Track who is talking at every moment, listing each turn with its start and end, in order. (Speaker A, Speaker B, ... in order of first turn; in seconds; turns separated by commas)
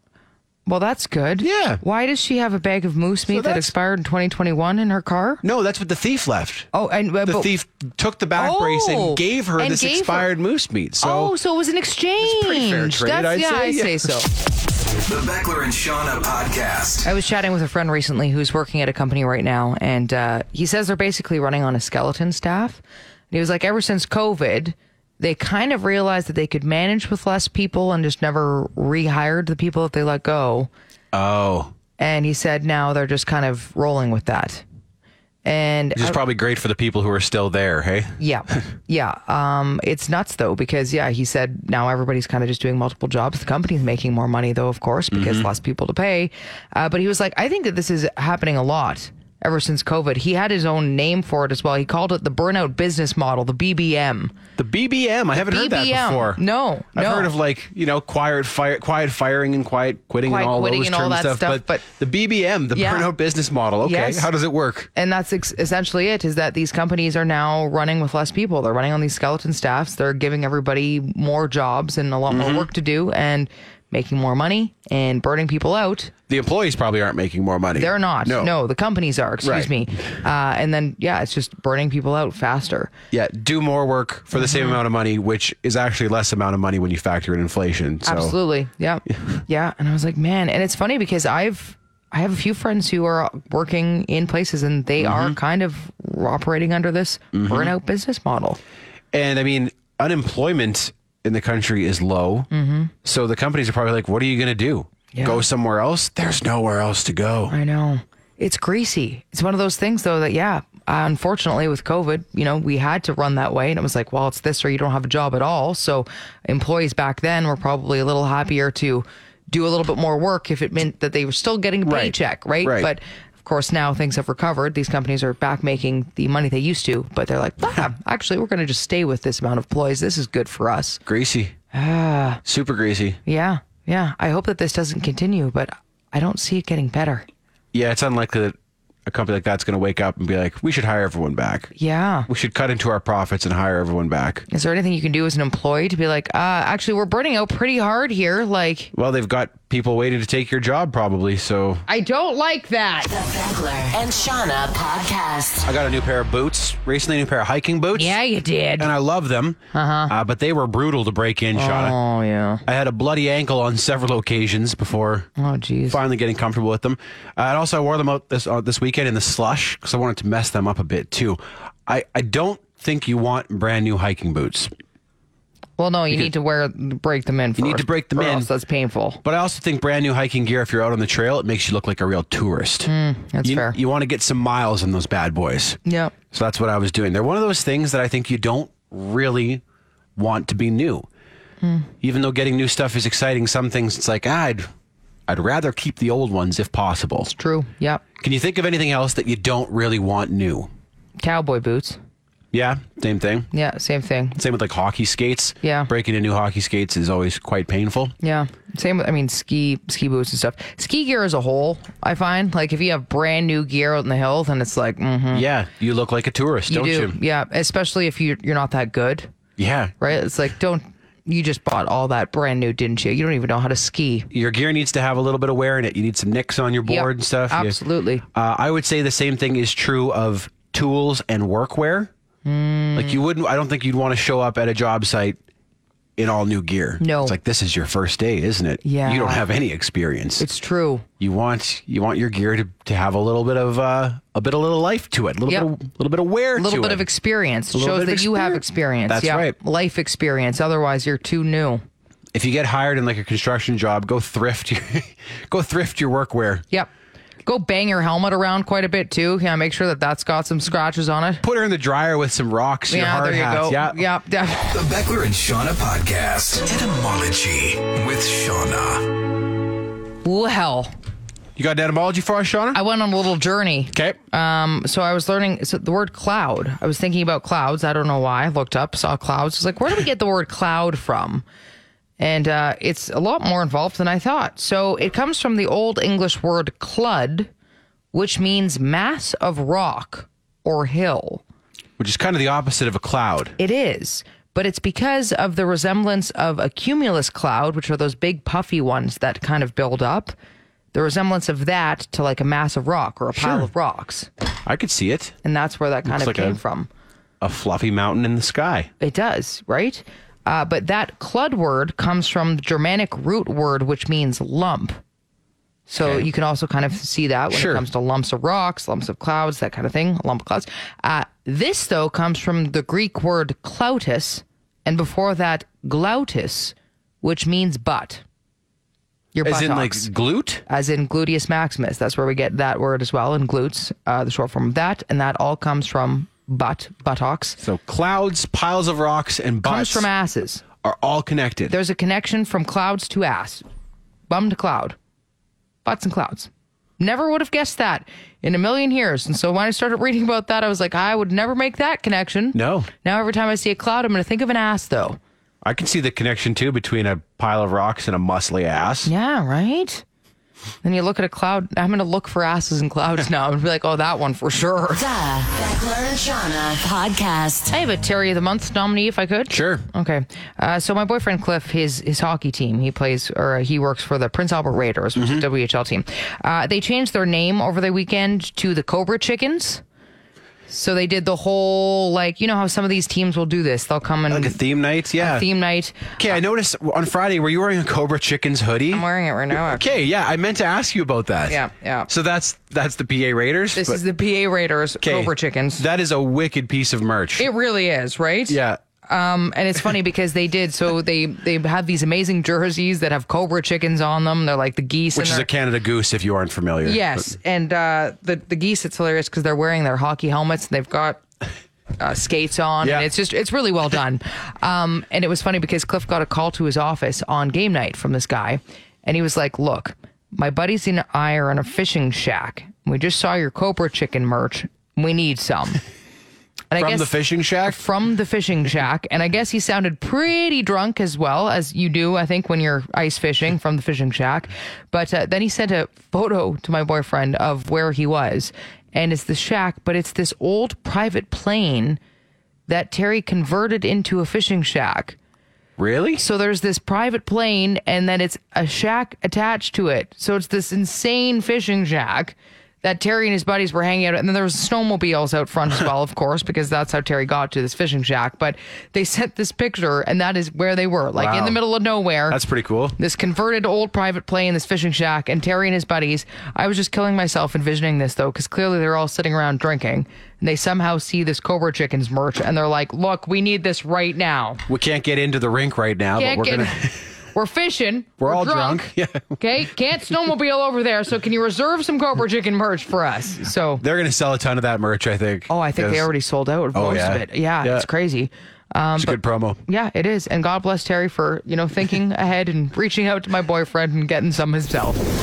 Speaker A: 0.7-5.4, Speaker B: 1.4-1.8, Speaker B: 3.3-3.7, Speaker B: 5.4-6.7, Speaker A: 6.7-7.5, Speaker B: 7.2-11.3, Speaker A: 8.3-10.3, Speaker A: 11.0-14.3, Speaker B: 12.2-14.2, Speaker C: 15.0-17.1, Speaker A: 17.0-30.7, Speaker B: 31.1-31.7, Speaker A: 32.0-34.6, Speaker A: 35.4-36.2, Speaker B: 36.0-38.6, Speaker A: 38.2-54.3, Speaker B: 45.1-45.5, Speaker B: 54.6-56.4, Speaker A: 55.3-57.3, Speaker B: 56.9-64.9, Speaker A: 60.2-61.8, Speaker A: 62.7-63.1, Speaker A: 63.8-64.3, Speaker A: 64.9-76.1, Speaker B: 72.3-72.7, Speaker B: 76.3-78.5, Speaker A: 77.8-82.9, Speaker B: 79.4-79.7, Speaker B: 83.1-88.3, Speaker A: 84.3-84.8, Speaker A: 88.0-98.6, Speaker B: 95.0-95.3, Speaker B: 97.3-97.7, Speaker B: 99.1-102.5, Speaker A: 102.5-102.9, Speaker B: 103.0-107.5, Speaker A: 105.1-105.4, Speaker A: 107.5-131.0, Speaker B: 121.8-122.9, Speaker B: 131.1-131.5, Speaker A: 131.7-132.4, Speaker B: 132.4-133.2, Speaker A: 133.2-137.2, Speaker B: 137.7-141.7, Speaker A: 141.8-142.3, Speaker B: 142.3-144.4, Speaker A: 144.5-148.9, Speaker B: 148.9-151.8, Speaker A: 151.9-153.1, Speaker D: 153.1-155.7, Speaker B: 155.7-158.2, Speaker A: 157.9-158.9, Speaker B: 158.8-162.0, Speaker A: 159.7-160.1, Speaker A: 161.5-162.6, Speaker B: 162.7-165.3, Speaker A: 165.4-166.0, Speaker B: 165.9-174.7, Speaker A: 175.8-179.2, Speaker B: 177.6-178.5, Speaker B: 179.2-182.9, Speaker A: 182.8-183.8, Speaker B: 183.4-185.8, Speaker A: 185.8-186.1, Speaker B: 186.3-189.6, Speaker B: 190.2-191.1, Speaker A: 191.6-191.9, Speaker B: 192.0-194.7, Speaker B: 195.3-197.3, Speaker A: 197.2-198.0, Speaker B: 198.2-200.7, Speaker A: 201.2-202.0, Speaker B: 202.5-203.5, Speaker A: 203.5-204.4, Speaker B: 204.3-208.1, Speaker A: 205.6-205.9, Speaker A: 208.2-215.4, Speaker B: 215.3-217.2, Speaker A: 216.7-219.3, Speaker B: 219.6-219.9, Speaker A: 220.0-224.3, Speaker B: 224.3-227.8, Speaker A: 226.8-228.2, Speaker B: 228.3-232.1, Speaker A: 232.4-233.2, Speaker B: 232.9-235.4, Speaker B: 236.2-240.4, Speaker A: 237.0-237.3, Speaker A: 238.8-239.4, Speaker A: 240.4-241.1, Speaker B: 241.2-247.1, Speaker A: 246.6-251.8, Speaker B: 247.7-249.5, Speaker B: 252.3-256.6, Speaker A: 257.4-261.4, Speaker B: 261.4-264.0, Speaker A: 262.9-264.7, Speaker C: 264.7-269.2, Speaker A: 270.2-270.9, Speaker B: 271.6-272.8, Speaker A: 272.7-281.4, Speaker B: 273.9-274.2, Speaker A: 282.2-287.5, Speaker A: 288.1-291.4, Speaker B: 292.0-293.6, Speaker A: 293.6-300.3, Speaker A: 300.9-304.3, Speaker B: 303.3-303.7, Speaker B: 304.6-305.4, Speaker A: 305.4-306.9, Speaker B: 306.0-306.6, Speaker B: 307.4-308.9, Speaker A: 309.0-315.0, Speaker A: 315.9-328.2, Speaker B: 316.0-316.3, Speaker B: 317.5-317.8, Speaker A: 329.3-330.1, Speaker B: 329.4-330.6, Speaker A: 330.7-337.6, Speaker B: 337.6-340.1, Speaker A: 339.6-340.6, Speaker B: 340.8-341.7, Speaker A: 341.7-343.6, Speaker A: 344.3-344.9, Speaker A: 345.8-355.2, Speaker B: 352.5-352.9, Speaker B: 355.6-359.1, Speaker A: 359.1-360.0, Speaker A: 360.8-365.0, Speaker D: 364.9-367.7, Speaker A: 367.7-379.8, Speaker B: 369.5-369.9, Speaker B: 375.1-375.4, Speaker A: 380.7-384.6, Speaker B: 384.3-385.4, Speaker A: 385.2-386.3, Speaker B: 386.2-394.0, Speaker A: 388.9-389.9, Speaker A: 391.5-392.1, Speaker A: 393.8-395.8, Speaker B: 395.0-397.5, Speaker A: 397.4-405.5, Speaker B: 398.5-398.8, Speaker B: 405.1-407.2, Speaker A: 406.8-411.2, Speaker A: 412.0-425.8, Speaker B: 412.8-413.1, Speaker A: 426.7-442.0, Speaker B: 426.8-427.8, Speaker A: 442.7-445.2, Speaker B: 445.8-446.2, Speaker A: 446.2-462.4, Speaker B: 461.1-461.6, Speaker B: 462.3-463.0, Speaker A: 463.0-474.6, Speaker B: 474.7-477.0, Speaker A: 476.1-483.8, Speaker B: 478.2-479.4, Speaker B: 483.8-486.1, Speaker A: 485.5-495.0, Speaker B: 486.7-487.9, Speaker B: 489.0-489.6